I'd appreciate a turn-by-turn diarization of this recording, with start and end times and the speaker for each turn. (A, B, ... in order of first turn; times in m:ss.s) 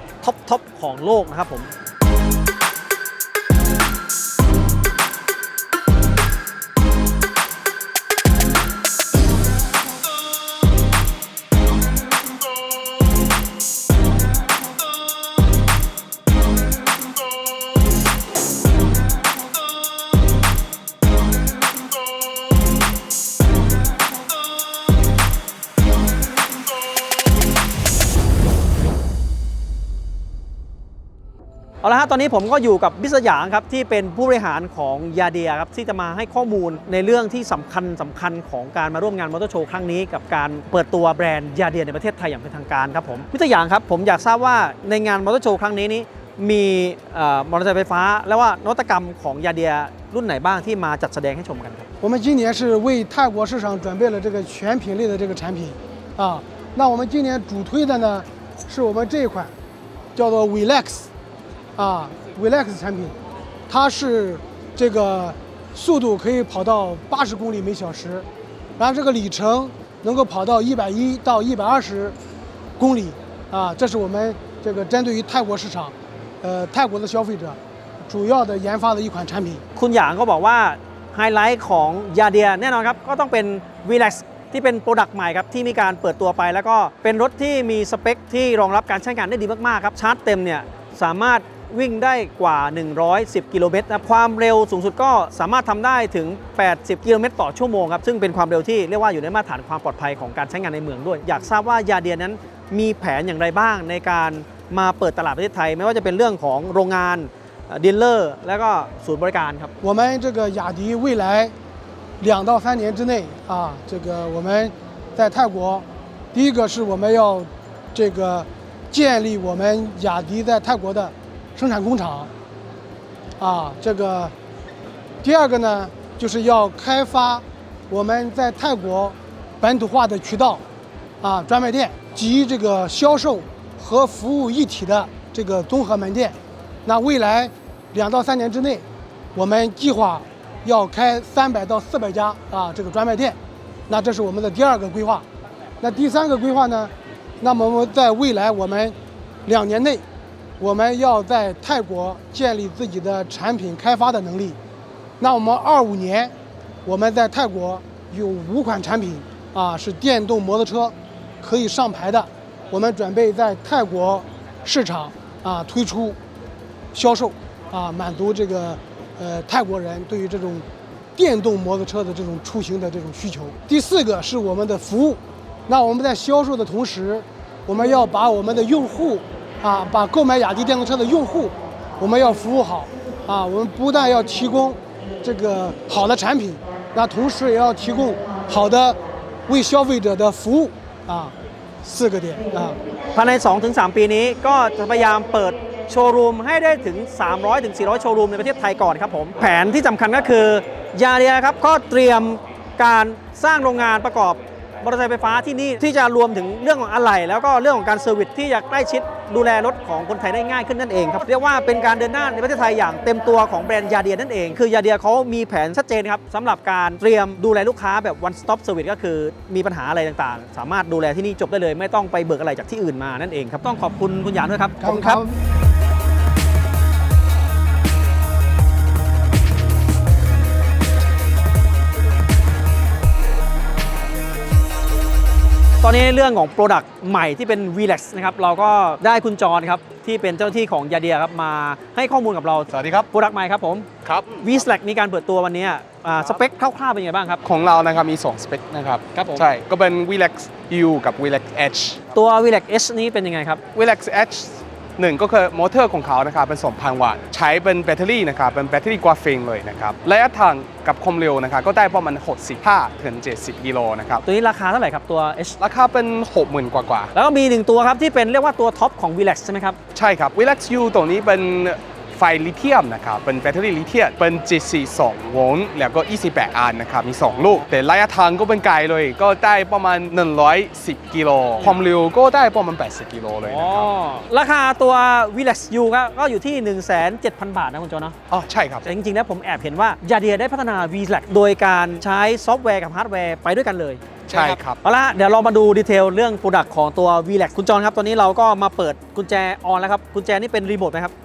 0:00.2-0:01.7 A
0:31.8-0:51.9 A
0:52.0-0:59.5 B
1:00.1-1:01.1 B
1:01.8-1:03.1 B
1:03.7-1:08.3 B
1:08.8-1:12.2 B
1:12.8-1:19.6 B
1:19.8-1:49.7 A
1:49.8-1:51.5 B
1:52.2-2:02.3 B
2:03.4-2:04.3 B
2:05.2-2:10.6 B
2:11.2-2:23.4 B
2:23.9-2:25.2 B
2:25.8-2:30.0 B
2:30.6-2:34.6 B
2:35.2-2:36.3 B
2:36.8-2:46.2 B
2:46.9-3:12.8 B
3:13.1-3:45.2 A
3:44.8-3:45.3 B
3:55.8-4:03.9 A
4:02.7-4:03.1 C
4:04.0-4:04.4 C
4:04.4-4:07.4 A
4:07.4-4:12.0 C
4:09.1-4:09.4 A
4:12.1-4:13.6 A
4:13.7-4:24.2 C
4:24.2-4:25.6 A
4:25.6-4:27.1 C
4:27.1-4:29.8 A
4:29.9-4:43.9 C
4:37.3-4:37.6 A
4:43.4-4:48.1 A
4:48.3-4:48.8 C
4:48.8-5:01.1 A
4:54.3-4:54.8 C